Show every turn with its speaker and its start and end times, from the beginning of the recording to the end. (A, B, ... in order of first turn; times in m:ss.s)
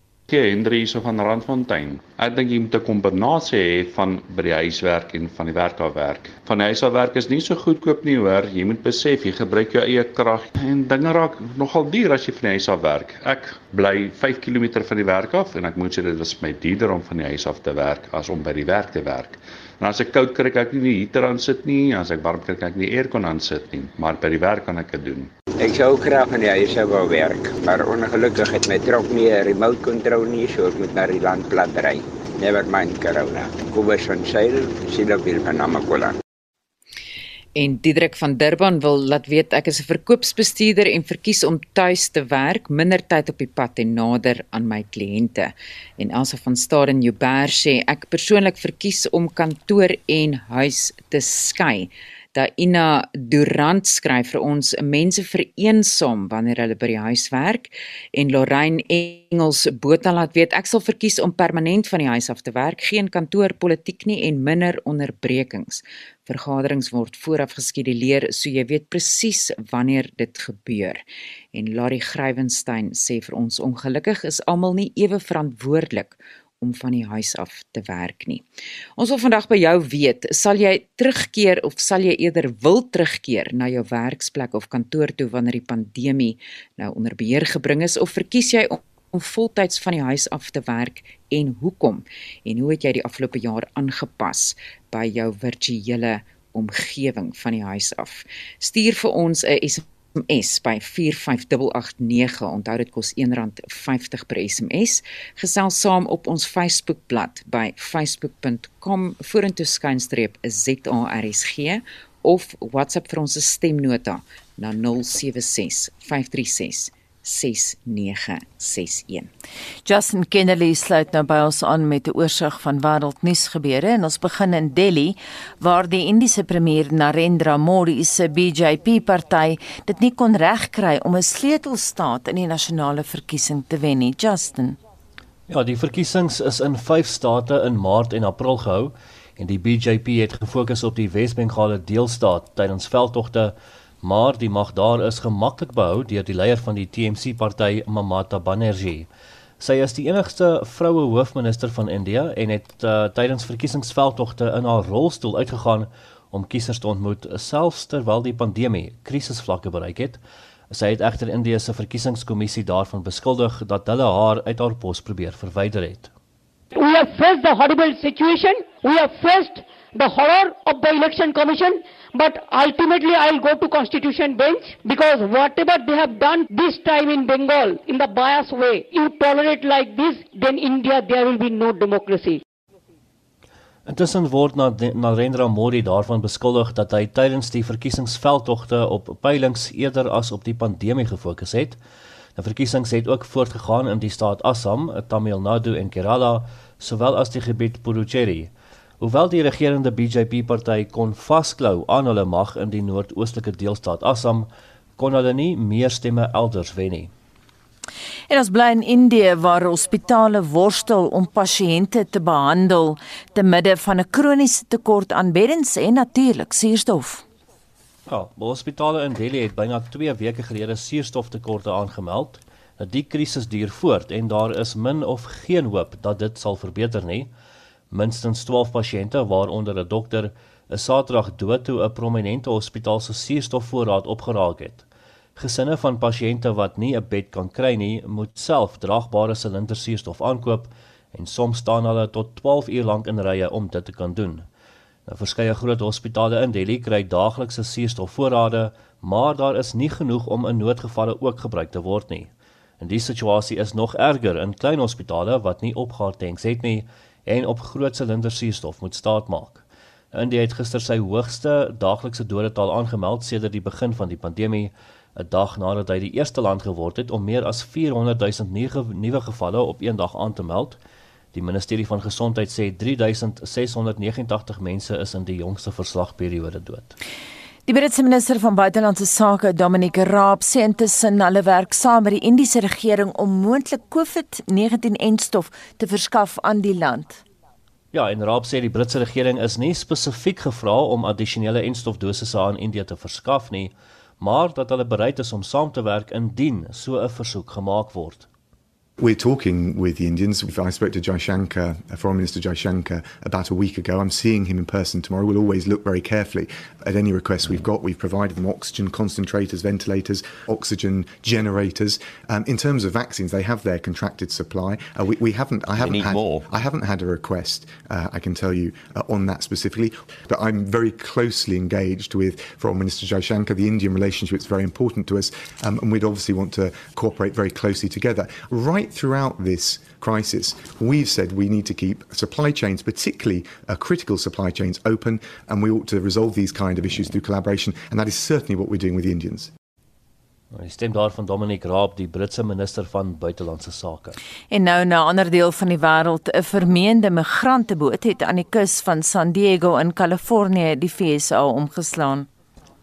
0:00.3-0:25.3 A
0:25.6-0:36.2 B
0:37.6-1:59.3 C
1:59.9-2:14.8 D
2:15.5-2:29.1 E
2:29.6-2:46.1 E
2:46.7-3:02.4 F
3:03.9-3:11.8 E
3:12.4-3:27.1 E
3:28.3-3:37.2 D
3:38.1-3:47.3 E
3:47.9-3:54.9 E
3:55.4-4:04.5 E
4:05.1-4:30.8 E
4:31.3-4:36.9 E
4:37.7-4:47.2 D
4:47.9-4:58.3 E
4:59.0-5:39.5 G
5:40.5-5:44.2 E
5:44.5-5:52.3 D